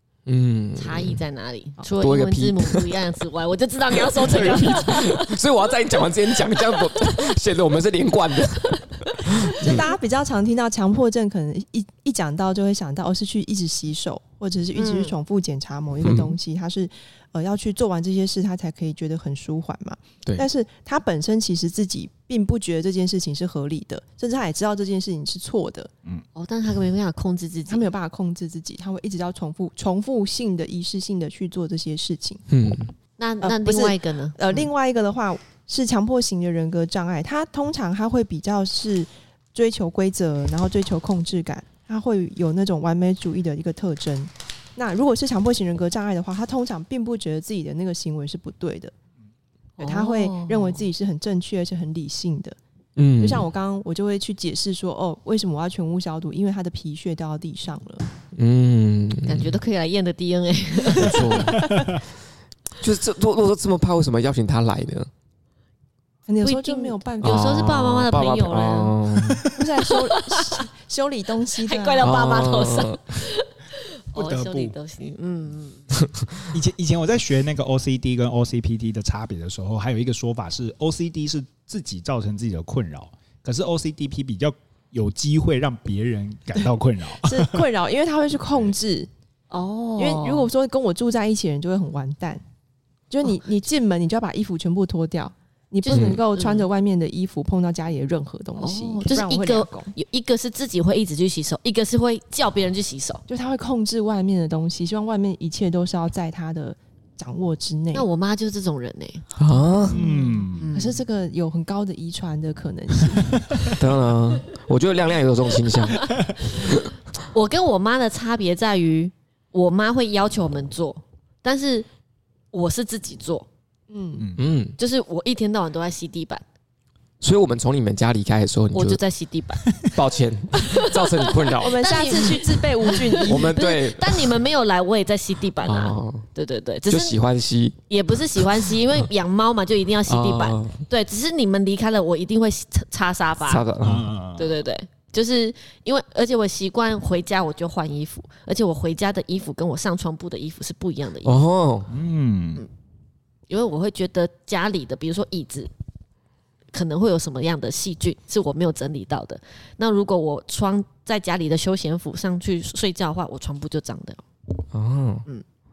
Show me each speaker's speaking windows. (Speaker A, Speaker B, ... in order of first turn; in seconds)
Speaker A: 0.2-1.2, 2.0-3.0, 4.0-9.8, 16.0-16.4, 32.5-32.9, 53.0-53.5, 58.3-59.5, 60.9-61.7, 62.8-65.1, 67.2-69.5, 72.0-73.2, 95.9-96.2, 109.3-110.0, 113.7-116.9, 124.3-124.8, 127.2-129.0, 129.9-131.8, 133.2-134.3, 135.6-136.2, 136.9-137.8, 140.1-140.8, 143.4-144.1, 151.2-151.9, 164.7-165.2
Speaker B: 0.8-5.4, 14.8-15.1, 26.3-27.8, 33.2-34.7, 49.8-50.9, 59.2-61.4, 66.4-69.0, 69.9-70.6, 71.6-76.0, 89.5-90.5, 95.8-96.7, 98.6-103.2, 107.9-111.0, 117.3-121.9, 122.5-123.5, 124.8-126.4, 128.7-129.6, 130.6-137.2, 137.9-143.6, 144.4-151.4, 153.5-155.7, 156.7-164.2
Speaker C: 9.6-25.9, 27.7-32.4, 33.4-48.9, 49.8-52.6, 53.2-58.0, 61.0-61.8, 66.2-67.6, 69.5-72.1, 87.2-89.1, 90.0-92.4, 93.1-99.9, 103.3-108.0, 109.9-113.6, 123.9-124.3, 131.6-133.6
Speaker D: 69.2-69.5, 74.1-74.7, 76.5-87.6, 109.9-110.7, 124.2-124.5, 143.8-144.6, 151.9-152.7